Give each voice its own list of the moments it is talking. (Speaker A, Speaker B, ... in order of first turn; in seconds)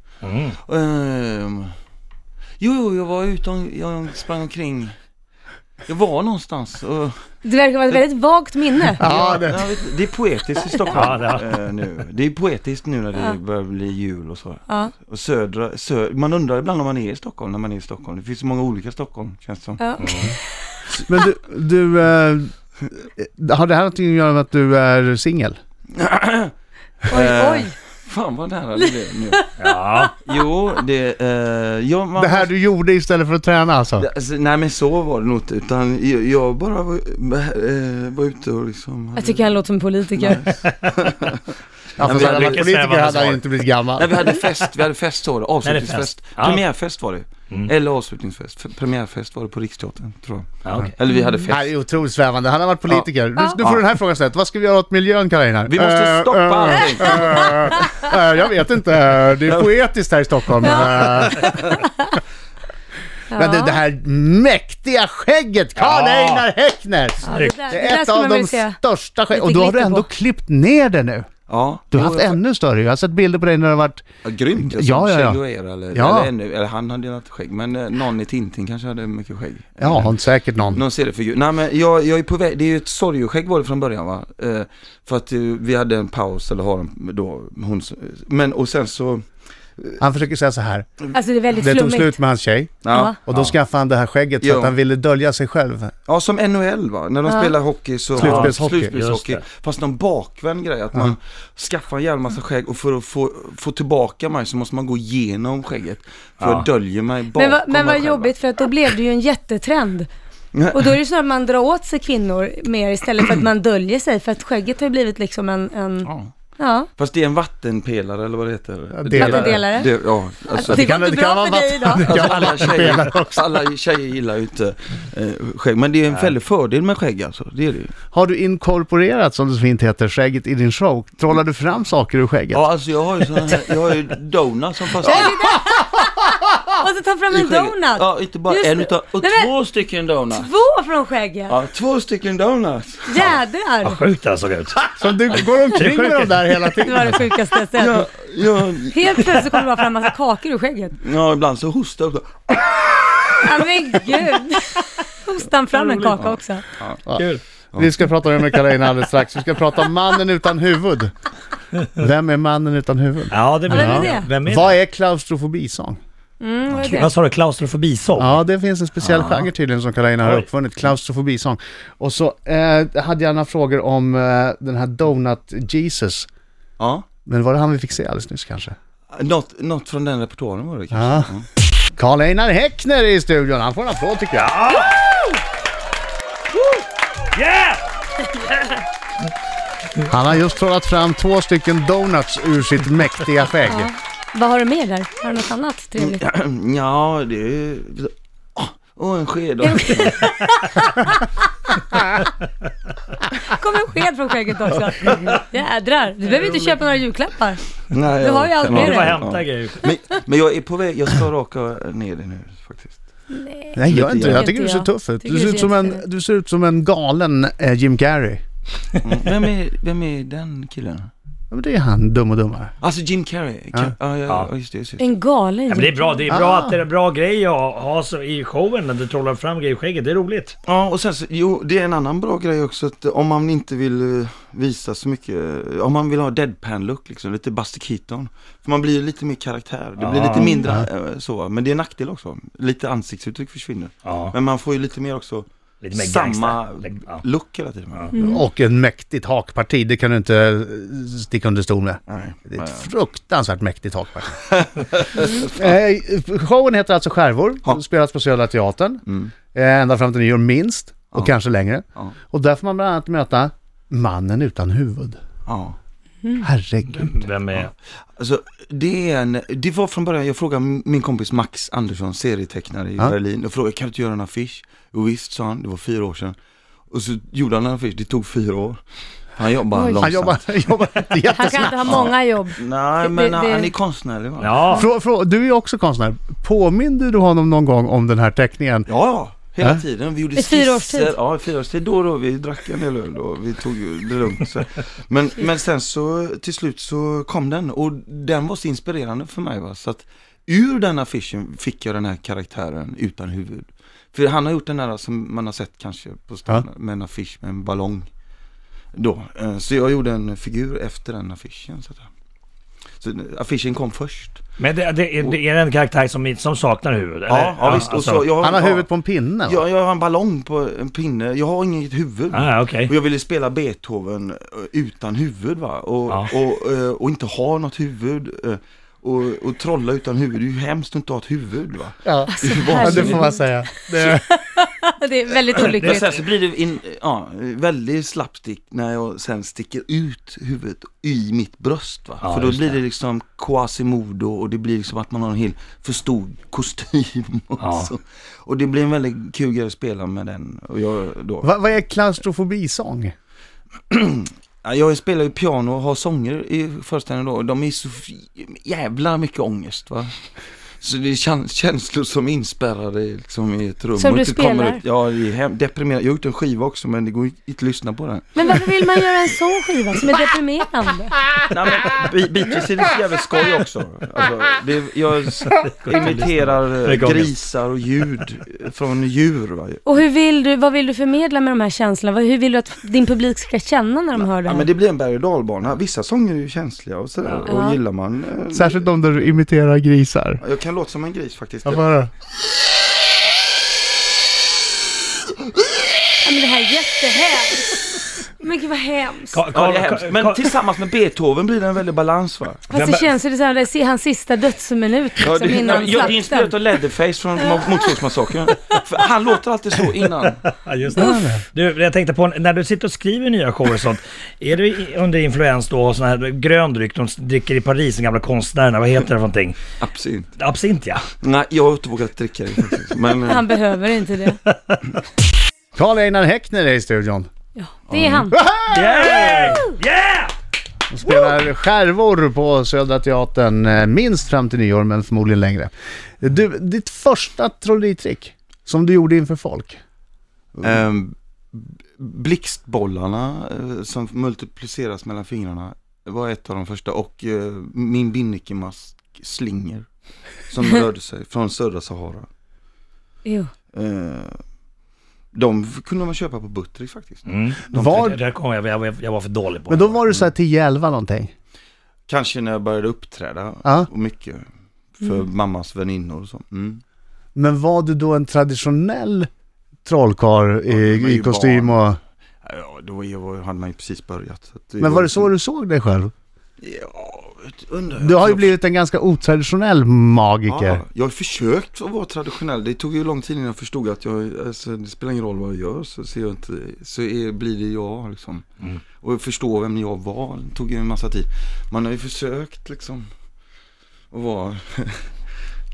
Speaker A: 0.2-0.6, 10.9-11.6, 20.0-20.3, 29.6-30.1, 40.6-41.0, 42.0-43.5, 44.2-44.7, 45.6-46.6, 50.6-50.9, 65.8-66.5, 67.3-67.6, 98.2-99.4, 106.4-106.7, 126.1-126.3, 143.8-146.6, 155.7-156.1, 157.1-157.4, 163.3-164.7, 166.8-168.4, 169.0-169.5, 184.3-185.0, 187.3-187.8, 208.6-209.9, 225.7-230.6, 240.0-240.6, 244.0-244.3, 245.8-247.2, 266.9-267.7, 284.4-284.9, 314.6-318.3, 322.3-322.9, 335.5-336.2, 342.2-342.8, 347.6-347.9, 375.5-377.3, 399.3-400.5, 402.7-403.1, 410.4-419.6, 420.4-421.0, 424.4-424.8, 428.7-430.3, 457.2-460.2
Speaker B: 0.6-1.7, 2.6-4.9, 5.8-7.2, 9.0-19.8, 25.9-26.5, 27.1-29.4, 30.2-32.5, 34.0-39.6, 40.1-41.4, 42.0-42.7, 44.0-51.7, 55.7-57.7, 71.5-72.4, 74.2-80.1, 80.7-89.2, 92.8-93.2, 94.4-94.7, 96.0-108.3, 110.5-110.9, 116.0-116.3, 117.0-120.9, 122.0-127.9, 132.5-135.4, 137.3-140.5, 141.5-143.3, 147.7-149.2, 151.0-153.4, 156.1-157.0, 176.8-177.1, 179.1-181.4, 195.9-200.3, 204.9-205.4, 206.2-206.7, 207.9-213.0, 213.9-214.5, 219.0-221.1, 222.8-225.0, 230.6-248.4, 252.1-252.9, 254.5-255.7, 259.1-259.3, 265.4-265.8, 268.2-276.4, 276.9-278.8, 279.4-280.5, 281.7-284.8, 288.9-308.1, 308.9-312.1, 313.0-314.4, 317.3-318.9, 319.4-333.3, 335.5-351.5, 353.9-360.1, 360.8-368.5, 371.5-379.8, 384.1-389.4, 390.4-391.9, 399.5-402.6, 405.2-410.4, 419.8-420.3, 421.2-423.5, 427.9-428.3, 440.5-449.9, 450.5-452.3, 453.7-454.4, 455.3-458.1, 462.1-464.4, 465.0-466.8, 470.7-471.8, 472.4-475.3, 476.6-478.5, 480.5-488.4, 489.0-493.1, 494.1-495.1
Speaker C: 7.4-9.0, 19.8-20.8, 27.1-27.7, 28.8-29.5, 39.1-40.5, 57.0-58.0, 60.6-62.2, 63.3-63.8, 67.2-68.8, 69.3-70.1, 91.1-92.2, 92.9-93.2, 97.2-97.5, 107.3-110.1, 110.7-116.9, 119.1-119.9, 120.5-122.3, 135.0-139.5, 140.3-141.5, 143.1-144.0, 146.8-148.1, 148.9-150.9, 153.4-156.6, 163.7-164.3, 166.4-167.1, 193.7-196.2, 199.6-201.2, 203.4-209.2, 213.3-216.0, 225.0-226.2, 240.3-240.6, 248.1-248.4, 279.7-280.2, 281.3-283.7, 290.3-291.1, 332.2-336.2, 363.9-364.8, 368.4-371.1, 379.8-384.7, 387.4-387.8, 396.2-399.4, 402.7-406.5, 408.5-408.8, 423.2-424.4, 427.6-428.4, 429.0-429.7, 453.2-453.5
Speaker D: 9.0-9.7, 21.0-22.5, 23.1-25.6, 32.2-34.0, 42.0-44.3, 51.4-61.8, 63.4-71.3, 71.9-74.0, 74.5-76.3, 79.8-80.8, 90.0-90.9, 91.5-95.9, 98.2-98.9, 118.9-119.7, 120.6-123.6, 128.1-132.7, 145.0-147.3, 157.1-161.1, 161.9-166.0, 168.2-176.3, 177.2-178.7, 180.9-181.3, 181.9-184.6, 190.1-193.9, 213.7-218.4, 221.5-222.7, 226.3-226.8, 240.6-240.9, 248.2-254.4, 255.4-265.2, 266.4-267.3, 280.0-282.1, 284.7-288.9, 318.4-319.6, 332.0-334.2, 351.4-353.1, 388.5-390.4, 391.6-392.1, 410.9-411.4, 425.7-427.3, 428.3-429.4, 430.9-439.8, 457.7-458.2, 459.7-461.3, 467.3-469.3, 469.8-472.0, 474.8-476.1, 478.0-480.8